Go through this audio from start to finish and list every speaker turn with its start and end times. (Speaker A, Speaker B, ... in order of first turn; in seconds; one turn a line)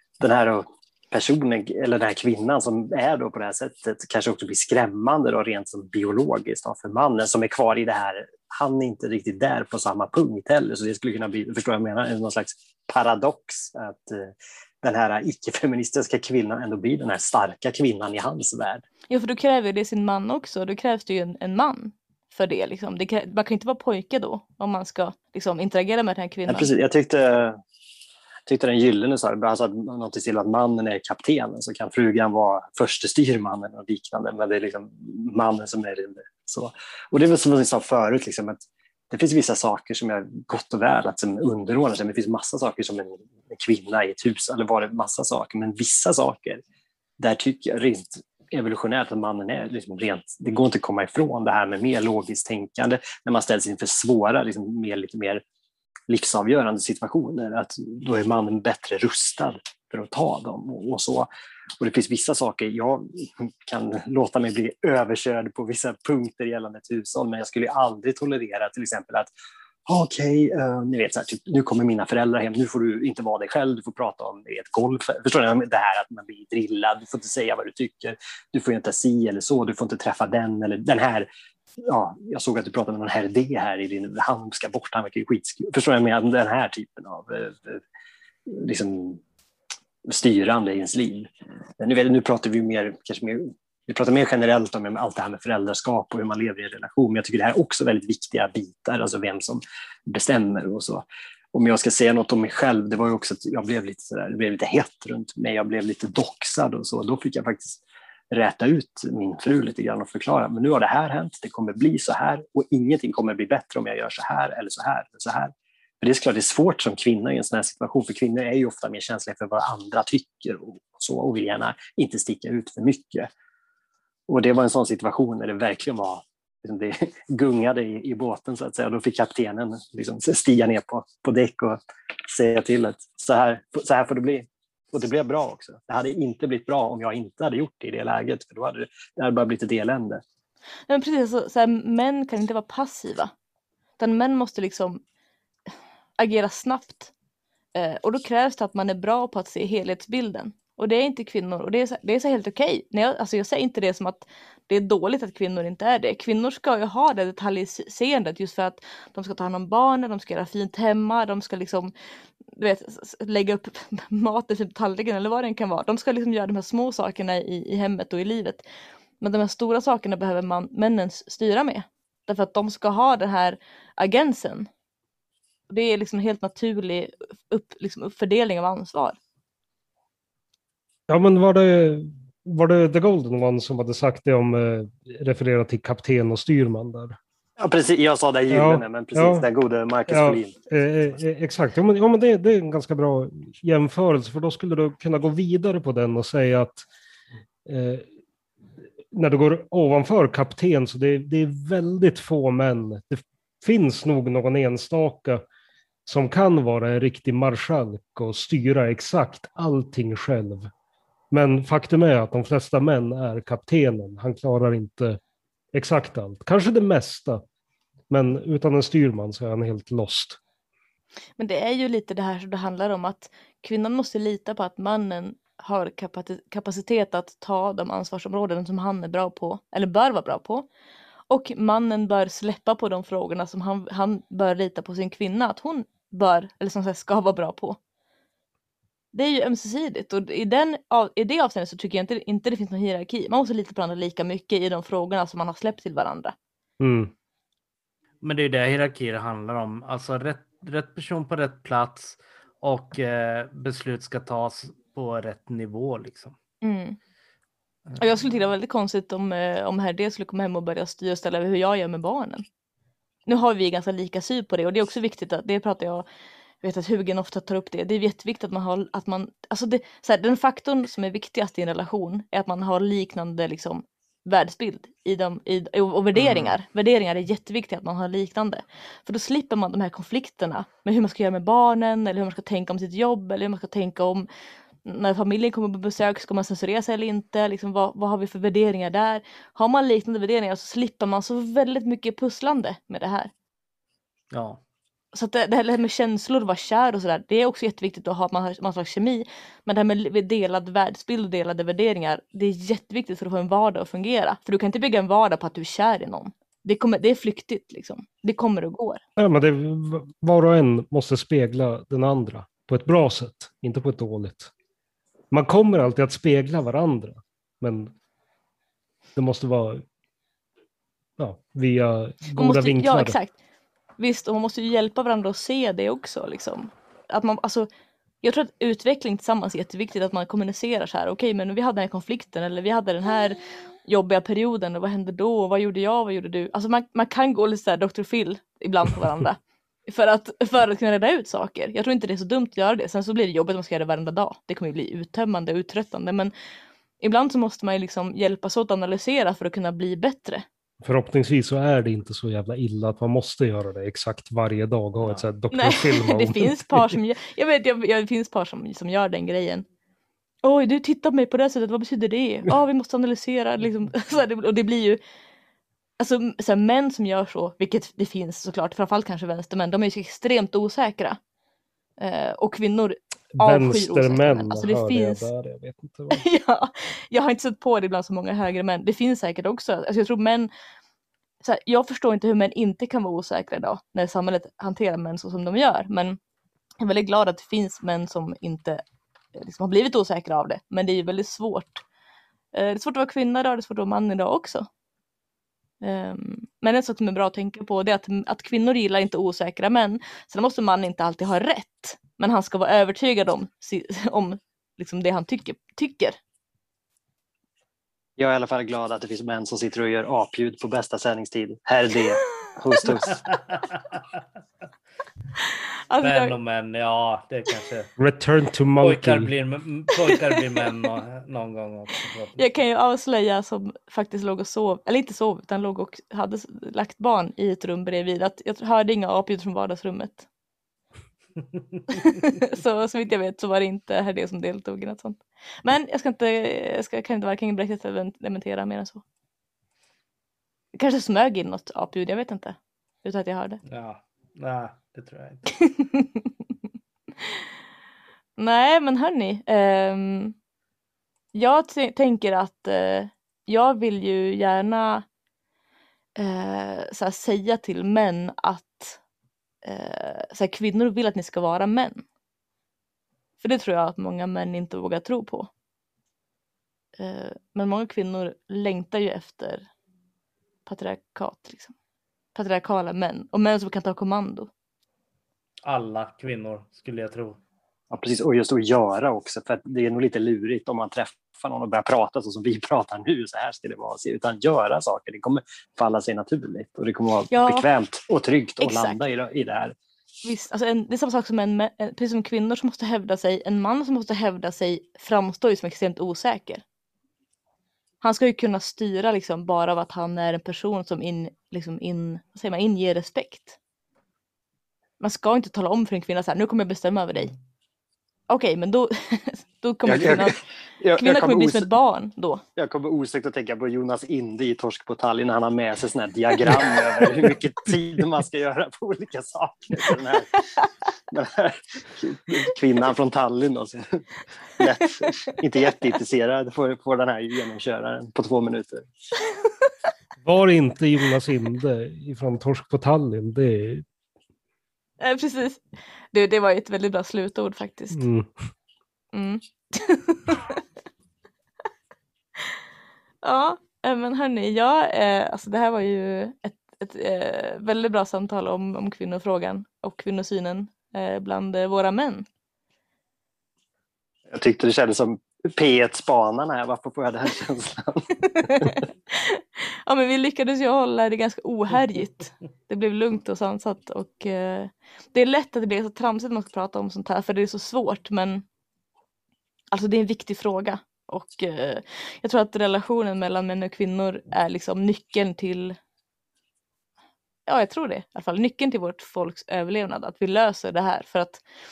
Speaker A: 0.2-18.8
Speaker B: 19.1-26.7
Speaker A: 26.5-27.6
Speaker A: 28.5-46.6
Speaker A: 47.2-55.4
Speaker A: 56.1-61.3
Speaker A: 61.8-69.3
Speaker A: 69.9-81.3
Speaker A: 81.9-87.8
Speaker A: 88.5-89.2
Speaker A: 90.1-123.3
Speaker A: 124.3-131.8
Speaker A: 132.3-140.2
Speaker B: 140.9-143.3
Speaker B: 144.0-145.0
Speaker B: 146.2-147.1
Speaker B: 147.8-161.9
Speaker B: 162.5-168.6
Speaker B: 169.2-174.7
Speaker B: 175.7-179.2
Speaker C: 181.1-187.2
Speaker A: 187.6-190.6
Speaker C: 188.5-189.5
Speaker C: 190.1-196.9
Speaker C: 197.7-198.1
Speaker C: 199.1-205.4
Speaker C: 206.1-210.7
Speaker C: 211.3-215.2
Speaker C: 215.7-217.4
Speaker C: 218.1-220.4
Speaker B: 221.4-230.7
Speaker B: 231.3-237.8
Speaker B: 239.1-246.3
Speaker C: 246.8-247.1
Speaker D: 248.2-256.4
Speaker B: 256.6-257.0
Speaker B: 258.0-262.4
Speaker B: 263.3-266.1
Speaker B: 266.6-284.3
Speaker D: 276.1-276.5
Speaker B: 284.8-293.3
Speaker D: 294.3-294.6
Speaker B: 295.1-309.0
Speaker C: 309.2-314.5
Speaker C: 315.3-317.9
Speaker C: 319.2-319.8
Speaker C: 321.2-323.2
Speaker B: 322.4-323.4
Speaker B: 324.0-327.7
Speaker B: 328.2-346.3
Speaker B: 347.0-350.4
Speaker C: 350.8-357.0
Speaker B: 355.5-359.7
Speaker B: 360.4-365.0
Speaker B: 366.0-371.2
Speaker B: 372.0-375.3
Speaker C: 373.4-376.2
Speaker B: 376.1-380.5
Speaker B: 381.4-386.2
Speaker B: 386.8-388.8
Speaker B: 389.4-391.8
Speaker B: 392.5-394.7
Speaker B: 395.8-406.2
Speaker A: 408.2-413.3
Speaker D: 413.3-414.0
Speaker B: 415.9-416.4
Speaker D: 416.0-417.9
Speaker C: 418.0-419.3
Speaker D: 418.8-422.5
Speaker B: 420.1-420.4
Speaker B: 422.4-430.3
Speaker B: 431.9-439.0
Speaker B: 440.7-443.6
Speaker D: 443.7-445.5
Speaker B: 445.7-446.2
Speaker B: 448.4-450.4
Speaker B: 451.3-455.1
Speaker B: 456.2-459.0
Speaker B: 459.6-462.0
Speaker B: 463.4-465.5
Speaker B: 467.0-469.7
Speaker B: 470.7-471.7
Speaker B: 472.4-474.5
Speaker D: 475.6-477.4
Speaker A: 477.9-489.8
Speaker B: 487.3-487.7
Speaker B: 488.6-489.0
Speaker B: 490.2-496.6
Speaker B: 498.0-503.6
Speaker B: 505.0-507.3
Speaker B: 508.3-510.4
Speaker A: 509.9-511.7
Speaker B: 511.0-512.4
Speaker A: 512.6-520.4
Speaker A: 521.1-528.9
Speaker C: 530.2-533.9
Speaker B: 535.0-538.1
Speaker C: 537.9-538.3
Speaker B: 539.1-540.6
Speaker B: 543.2-552.3
Speaker A: 554.3-558.8
Speaker B: 558.4-568.5
Speaker B: 569.7-575.8
Speaker B: 577.5-581.4